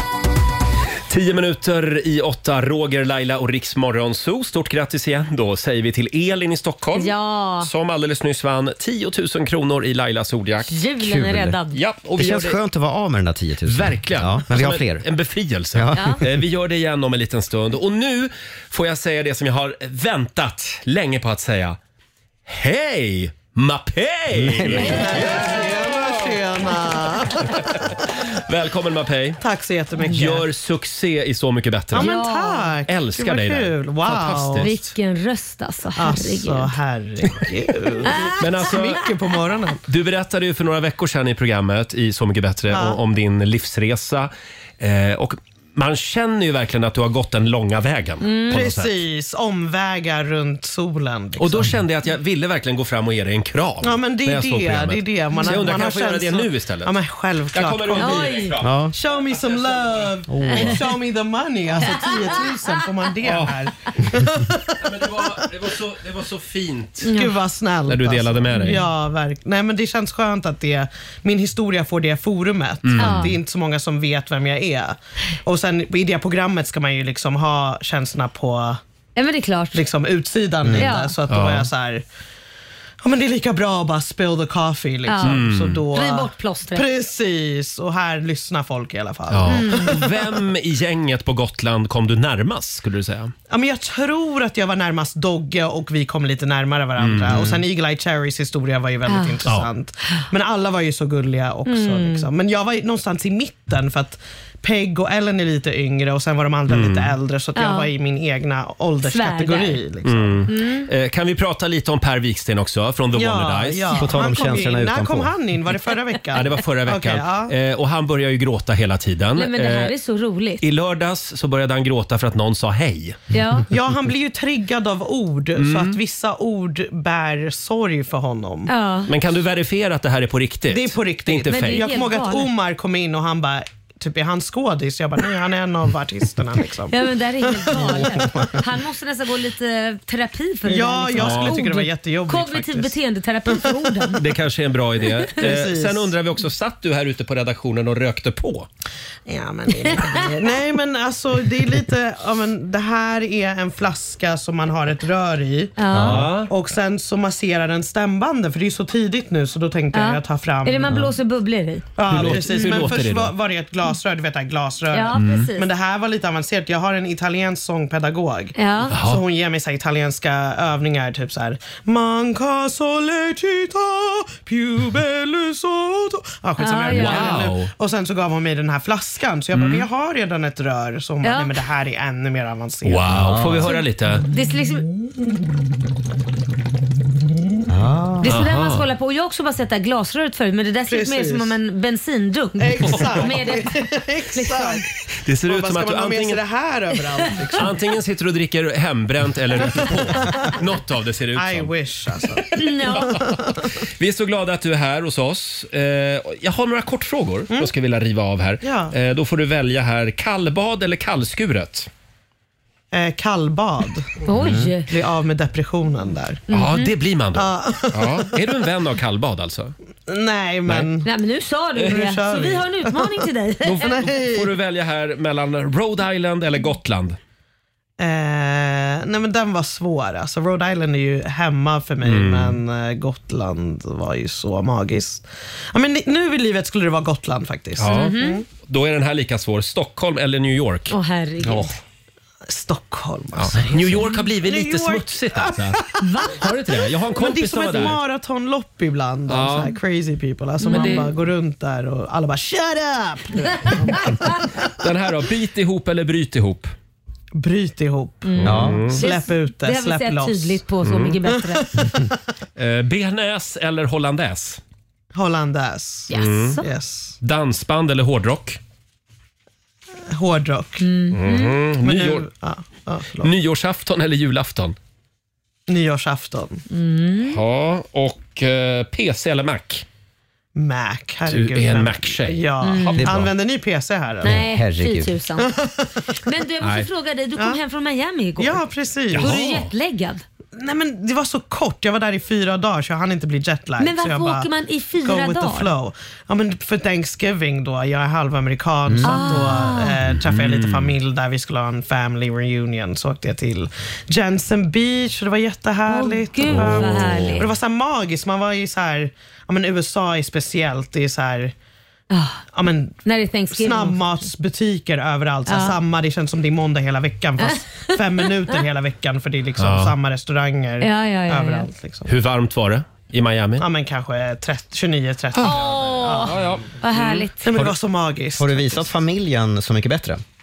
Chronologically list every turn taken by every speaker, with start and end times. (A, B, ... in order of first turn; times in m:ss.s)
0:01.1-0:10.7 A
0:06.9-0:07.7 B
0:10.7-0:11.8 B
0:11.0-0:11.6 C
0:11.7-0:12.6 A
0:12.2-0:15.0 C
0:13.6-0:21.8 A
0:15.7-0:16.3 C
0:15.9-0:16.2 B
0:22.4-0:25.7 A
0:24.3-0:25.1 C
0:24.8-0:27.6 D
0:28.5-0:29.4 A
0:29.4-0:30.4 D
0:30.0-0:32.1 A
0:31.9-0:34.7 D
0:32.0-0:32.7 B
0:32.9-0:34.8 A
0:34.6-0:36.8 B
0:36.0-0:39.8 D
0:38.0-0:38.8 B
0:38.4-0:39.0 A
0:39.9-0:49.0 A
0:42.7-0:43.0 D
0:48.2-0:48.5 B
0:48.5-0:51.7 D
0:51.4-0:56.9 A
0:53.8-0:58.4 D
0:57.5-1:00.0 A
0:58.0-0:58.5 B
0:58.6-0:58.9 C
0:58.9-1:05.4 D
1:00.3-1:00.8 C
1:00.4-1:00.7 B
1:03.2-1:03.6 A
1:04.8-1:07.2 A
1:07.0-1:07.3 B
1:07.1-1:18.8 D
1:07.9-1:08.8 A
1:08.5-1:08.8 B
1:12.8-1:13.3 A
1:13.0-1:13.4 B
1:19.2-1:19.8 B
1:19.7-1:22.0 D
1:20.8-1:21.1 B
1:21.3-1:21.7 A
1:23.0-1:30.3 D
1:25.0-1:26.9 B
1:25.2-1:25.8 A
1:29.3-1:33.3 A
1:29.5-1:30.0 B
1:33.5-1:50.4 D
1:37.0-1:37.6 A
1:39.1-1:39.4 B
1:41.6-1:42.3 B
1:46.7-1:47.1 A
1:47.6-1:47.9 B
1:49.0-1:49.8 B
1:50.0-1:54.0 A
1:50.5-1:50.9 B
1:53.1-1:57.5 D
1:54.0-1:55.3 C
1:56.3-1:59.9 A
1:59.4-2:00.6 B
2:00.6-2:03.2 A
2:03.3-2:03.6 B
2:03.7-2:08.7 D
2:05.6-2:06.0 A
2:08.7-2:09.1 B
2:09.1-2:11.8 A
2:10.7-2:18.5 D
2:11.5-2:12.5 B
2:16.9-2:24.2 B
2:20.6-2:24.1 D
2:21.2-2:21.6 A
2:24.2-2:28.7 A
2:25.4-2:26.1 D
2:29.3-2:41.0 D
2:29.9-2:30.1 B
2:35.8-2:36.2 B
2:36.0-2:36.5 A
2:39.9-2:42.8 B
2:42.0-3:03.1 D
2:42.1-2:43.3 A
2:44.9-2:45.6 B
2:45.2-2:45.5 A
2:48.6-2:48.9 B
2:48.9-2:49.2 A
2:56.6-2:57.4 B
2:56.9-2:57.7 A
2:59.5-2:59.8 A
3:01.2-3:01.5 B
3:02.8-3:04.2 A
3:03.6-3:04.9 B
3:07.7-3:08.2 C
3:08.2-3:13.8 B
3:08.2-3:08.8 A
3:10.9-3:11.6 D
3:12.6-3:14.9 D
3:12.8-3:13.2 A
3:14.3-3:14.8 B
3:15.2-3:16.4 A
3:15.5-3:17.7 D
3:17.6-3:21.7 A
3:19.6-3:20.5 D
3:21.3-3:23.7 D
3:22.6-3:23.2 B
3:22.9-3:23.2 A
3:24.0-3:31.9 A
3:28.6-3:28.9 D
3:32.9-3:34.1 D
3:34.2-3:34.9 B
3:34.9-3:36.4 D
3:36.5-3:36.9 B
3:36.5-3:39.7 A
3:37.3-3:38.3 D
3:40.1-3:41.1 D
3:41.0-3:44.0 B
3:41.8-3:44.5 D
3:43.6-3:47.2 A
3:48.0-3:58.4 D
3:52.0-3:52.6 A
3:57.8-4:00.9 A
3:57.9-3:58.4 B
4:00.9-4:01.7 B
4:02.5-4:06.0 D
4:03.4-4:05.8 A
4:06.0-4:06.4 B
4:06.4-4:08.0 A
4:07.1-4:13.9 D
4:09.3-4:09.7 A
4:10.6-4:11.1 B
4:10.7-4:11.1 A
4:13.6-4:14.3 B
4:14.8-4:16.7 A
4:17.4-4:20.6 D
4:18.2-4:21.6 B
4:18.4-4:19.0 A
4:18.4-4:18.8 C
4:20.8-4:21.2 A
4:21.2-4:22.1 D
4:22.6-4:24.6 A
4:25.1-4:27.2 D
4:26.1-4:26.6 B
4:26.1-4:26.6 A
4:27.2-4:28.6 A
4:30.1-4:30.8 D
4:30.8-4:31.6 B
4:31.1-4:32.2 A
4:31.8-4:33.3 D
4:33.2-4:34.8 A
4:35.7-4:36.6 D
4:36.7-4:37.4 B
4:37.3-4:39.8 A
4:40.5-4:44.4 D
4:41.3-4:43.3 A
4:42.6-4:43.1 B
4:43.0-4:43.2 C
4:44.2-4:45.2 C
4:44.2-4:45.5 B
4:45.4-4:46.2 D
4:46.2-4:48.6 B
4:46.6-4:46.9 A
4:47.4-4:47.6 D
4:48.4-4:49.3 D
4:49.1-4:49.7 A
4:49.2-4:50.2 B
4:50.5-4:54.5 D
4:53.8-4:55.7 B
4:55.0-5:11.5 D
4:59.0-4:59.9 B
5:00.1-5:00.9 A
5:05.9-5:07.5 B
5:06.5-5:07.4 A
5:12.1-5:12.4 B
5:12.5-5:22.1 D
5:13.0-5:14.0 B
5:15.5-5:15.8 B
5:17.4-5:18.0 B
5:19.6-5:19.9 A
5:20.8-5:21.7 B
5:22.0-5:23.6 A
5:23.6-5:26.4 D
5:25.4-5:27.2 A
5:25.4-5:27.5 B
5:27.4-5:28.9 D
5:28.4-5:30.2 C